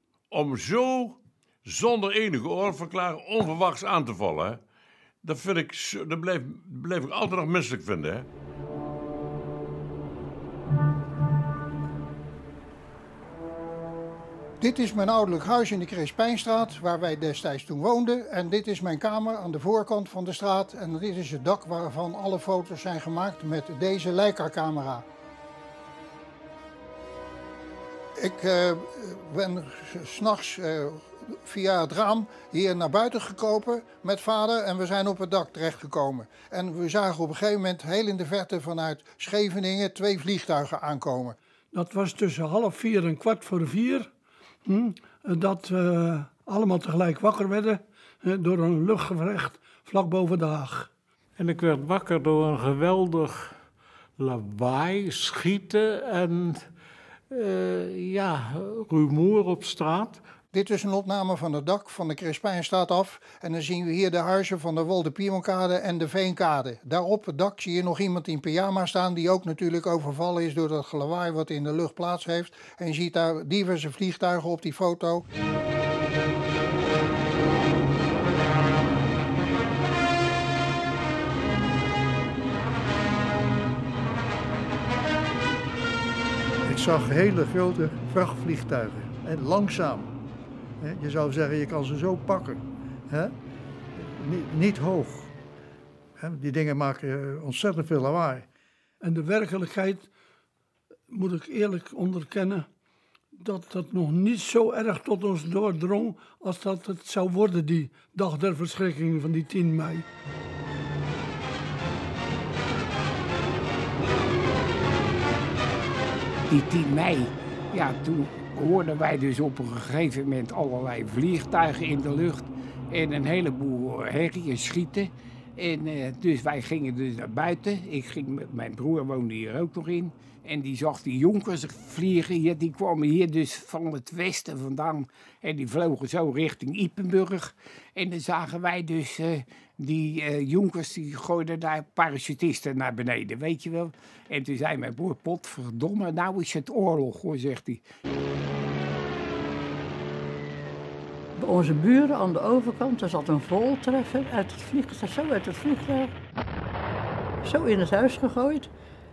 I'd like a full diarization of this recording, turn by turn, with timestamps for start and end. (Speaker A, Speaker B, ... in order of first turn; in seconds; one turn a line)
Speaker A: 0.3-4.6
Speaker A: 5.2-8.3
Speaker B: 14.6-25.1
Speaker B: 28.2-41.4
Speaker C: 41.7-44.1
Speaker C: 44.7-50.9
Speaker D: 51.4-53.6
Speaker D: 54.2-56.7
Speaker D: 57.3-60.2
Speaker B: 60.5-75.2
Speaker E: 86.7-90.1
Speaker E: 90.8-93.4
Speaker E: 94.0-95.3
Speaker E: 96.2-98.5
Speaker C: 99.0-100.1
Speaker C: 101.1-102.7
Speaker C: 103.4-110.1
Speaker F: 116.5-147.8
Speaker G: 151.4-156.1
Speaker G: 157.4-158.7